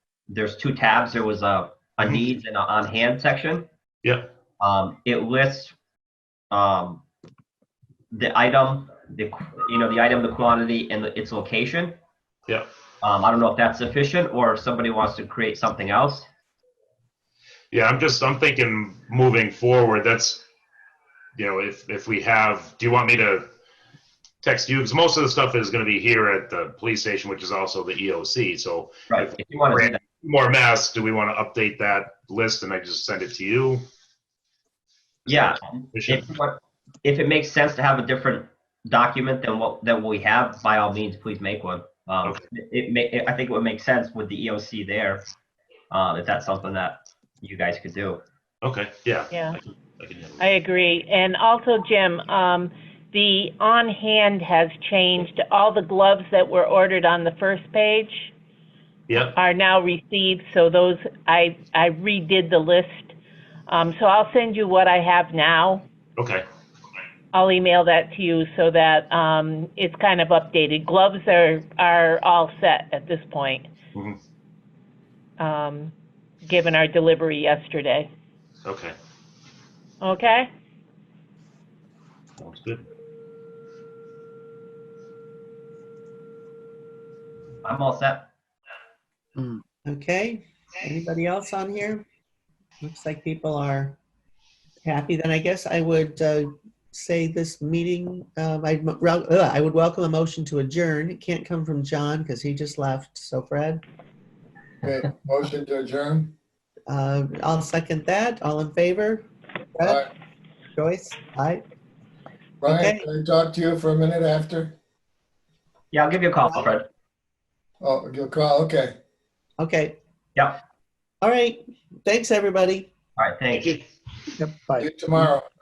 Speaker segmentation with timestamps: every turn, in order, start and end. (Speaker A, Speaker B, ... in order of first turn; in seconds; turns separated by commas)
Speaker A: 0.3-3.7, Speaker B: 4.0-4.3, Speaker A: 4.6-5.7, Speaker A: 6.5-7.0, Speaker A: 8.1-12.0, Speaker A: 13.0-16.3, Speaker B: 17.7-20.5, Speaker B: 21.4-23.5, Speaker B: 24.4-33.8, Speaker A: 29.1-30.0, Speaker A: 35.3-45.2, Speaker B: 35.3-36.3, Speaker A: 45.9-48.2, Speaker B: 48.6-50.5, Speaker C: 49.3-49.6, Speaker C: 50.4-58.3, Speaker B: 59.1-59.4, Speaker C: 59.3-63.1, Speaker C: 63.7-65.8, Speaker B: 66.2-66.5, Speaker C: 67.3-73.7, Speaker C: 75.4-75.9, Speaker C: 76.4-78.1, Speaker B: 78.6-78.9, Speaker C: 80.0-80.5, Speaker B: 82.4-82.8, Speaker A: 87.6-88.3, Speaker D: 89.4-92.0, Speaker D: 92.8-94.0, Speaker D: 94.8-103.8, Speaker E: 104.8-106.3, Speaker D: 106.9-110.0, Speaker D: 110.8-111.6, Speaker E: 112.6-114.8, Speaker D: 112.6-113.0, Speaker A: 115.9-116.9, Speaker E: 117.8-118.9, Speaker D: 119.6-120.0, Speaker D: 121.2-122.9, Speaker A: 123.2-123.8, Speaker D: 124.4-125.3, Speaker E: 124.8-125.5